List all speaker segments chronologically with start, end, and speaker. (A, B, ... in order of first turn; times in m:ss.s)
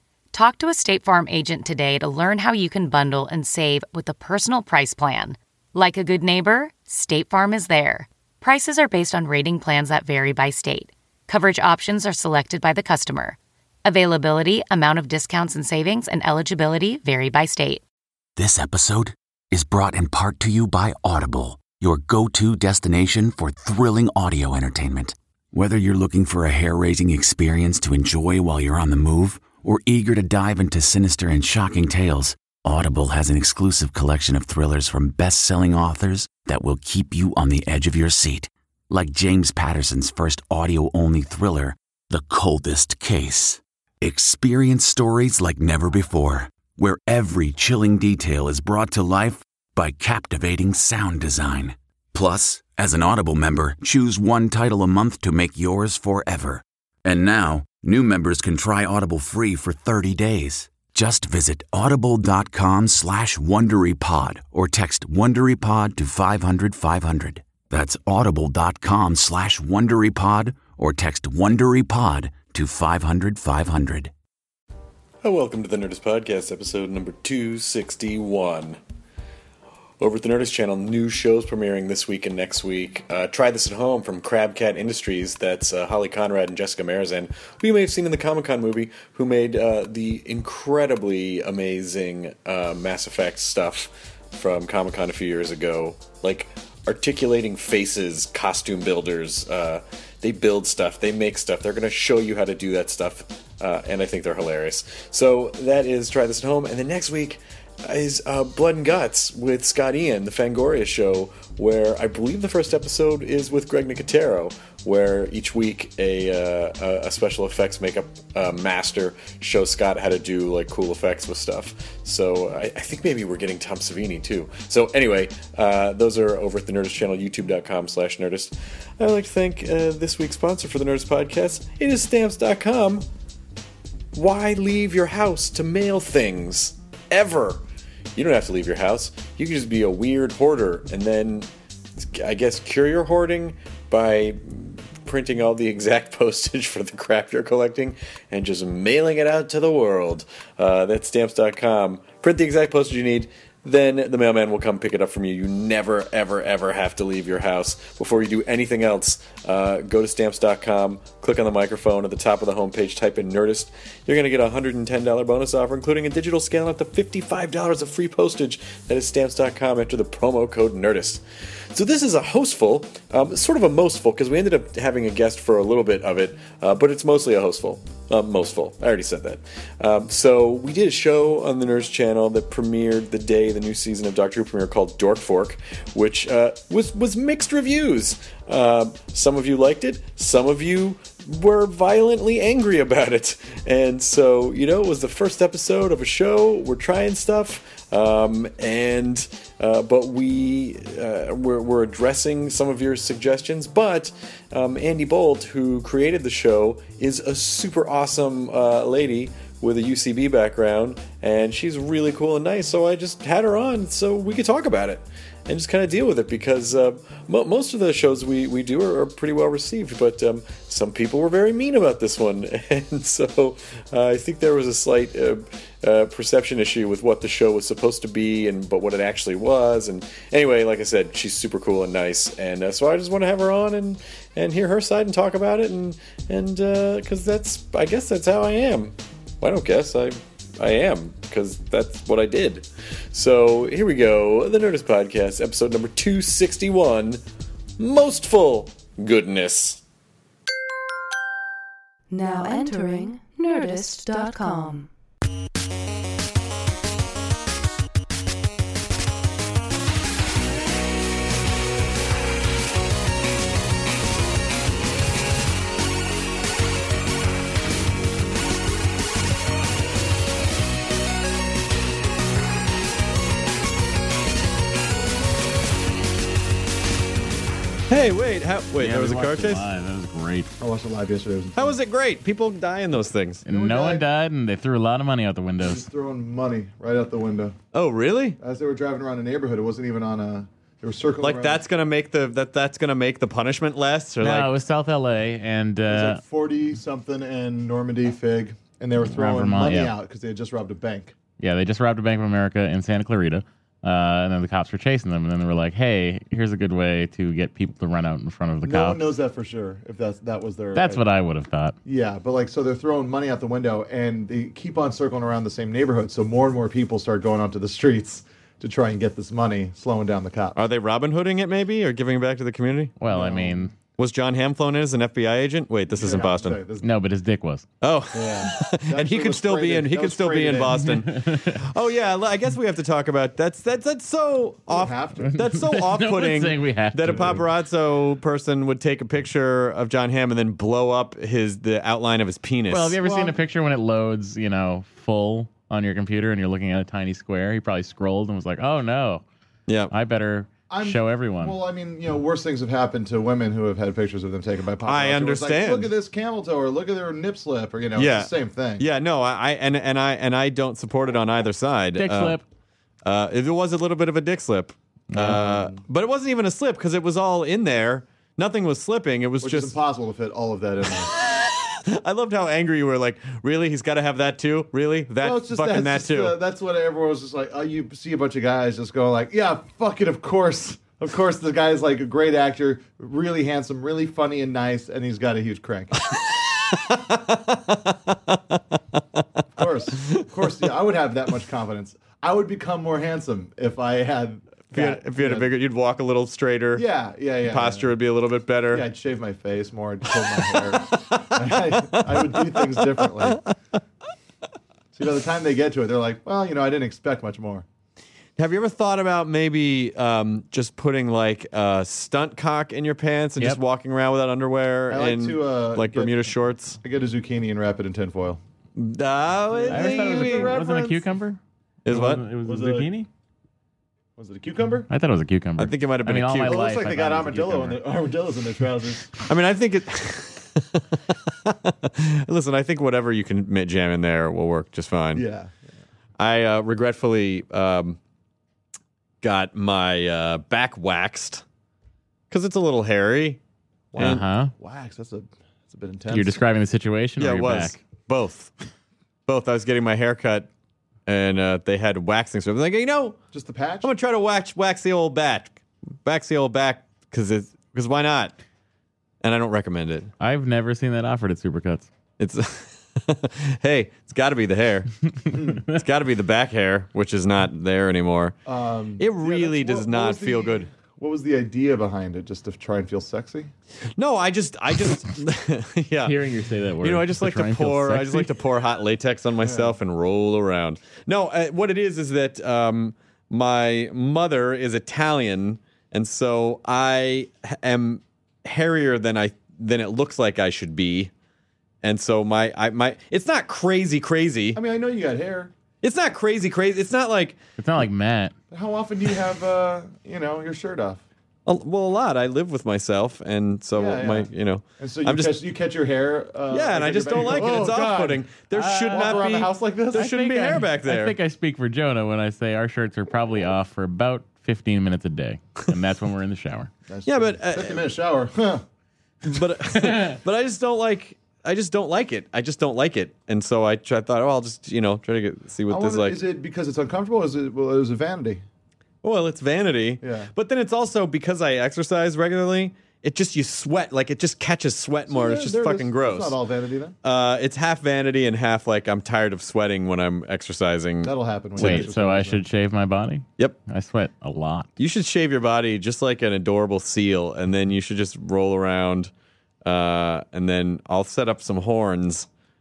0:00.3-0:17.8 A
0:18.4-1:14.1 B
1:15.2-1:18.8 C
1:20.0-2:13.0 C
2:14.1-2:17.6 C
2:18.2-4:07.2 C
4:07.8-4:09.8 C
4:12.1-4:14.9 D
4:37.9-4:39.7 E
4:38.8-4:40.5 F
4:40.6-4:41.8 G
4:41.5-4:43.4 E
4:43.4-4:44.1 G
4:43.4-4:45.8 F
4:45.6-4:47.6 G
4:47.7-4:48.4 E
4:48.4-4:51.6 G
4:51.2-4:54.5 E
4:54.2-4:56.2 F
4:55.9-5:01.1 G
4:59.0-4:59.9 F
5:01.4-5:09.1 F
5:08.6-5:11.0 G
5:10.8-5:11.8 F
5:11.8-5:20.6 G
5:20.5-5:22.9 E
5:23.0-5:23.7 F
5:23.1-5:23.7 G
5:24.0-5:26.6 E
5:25.9-5:26.9 G
5:26.8-5:27.6 F
5:27.8-5:43.0 E
5:28.1-5:30.8 G
5:30.8-5:31.6 F
5:34.7-5:35.4 G
5:35.2-5:37.4 F
5:42.7-5:49.2 F
5:43.0-5:43.4 G
5:49.7-5:49.9 E
5:49.9-5:51.6 F
5:50.7-5:58.8 G
5:54.8-5:55.9 E
5:58.0-6:02.4 E
6:02.0-6:02.4 F
6:03.0-6:09.8 E
6:05.1-6:05.4 F
6:05.2-6:05.8 G
6:09.4-6:11.1 G
6:11.2-6:16.4 E
6:15.2-6:26.0 G
6:26.2-6:28.4 E
6:29.5-6:35.5 G
6:34.7-6:36.8 E
6:36.7-6:37.9 G
6:37.4-6:38.9 E
6:38.7-6:43.4 G
6:41.1-6:43.5 E
6:44.9-6:47.6 G
6:48.4-6:56.8 E
6:54.9-6:56.3 G
6:56.8-6:58.4 G
6:58.8-7:01.0 E
6:59.5-7:01.0 G
6:59.7-7:03.1 F
7:01.8-7:02.2 E
7:02.4-7:02.9 G
7:04.2-7:04.9 G
7:04.9-7:07.8 F
7:05.6-7:06.6 E
7:06.4-7:09.1 G
7:09.2-7:15.2 E
7:15.1-7:15.6 G
7:16.2-7:18.0 E
7:19.2-7:21.4 E
7:22.3-7:23.4 E
7:23.9-7:26.4 G
7:24.0-7:24.2 E
7:24.0-7:24.5 F
7:26.1-7:27.8 F
7:27.2-7:28.5 E
7:29.3-7:30.5 E
7:31.1-7:33.2 E
7:33.3-7:33.9 G
7:33.8-7:38.3 E
7:39.2-7:40.1 E
7:40.2-7:41.9 F
7:42.2-7:44.9 E
7:45.3-7:45.6 G
7:45.3-7:45.8 F
7:45.7-7:48.4 E
7:48.4-7:53.5 G
7:49.0-7:50.7 E
7:54.0-7:56.2 E
7:56.0-7:58.3 F
7:56.8-8:11.1 E
7:59.4-7:59.8 G
8:11.8-8:14.6 E
8:14.5-8:15.5 G
8:15.8-8:17.4 E
8:17.6-8:18.3 F
8:18.5-8:21.0 G
8:21.4-8:25.3 E
8:23.7-8:28.3 G
8:26.5-8:31.2 E
8:27.2-8:27.6 F
8:28.5-8:36.7 F
8:28.9-8:30.1 G
8:36.9-8:38.6 G
8:37.1-8:37.8 E
8:39.2-8:46.2 E
8:39.8-8:40.2 F
8:45.7-8:48.4 G
8:49.0-8:56.4 E
8:50.0-8:50.3 G
8:55.1-8:57.0 G
8:57.0-9:01.9 E
9:01.0-9:02.4 G
9:01.6-9:04.7 F
9:04.8-9:09.1 E
9:09.6-9:12.3 E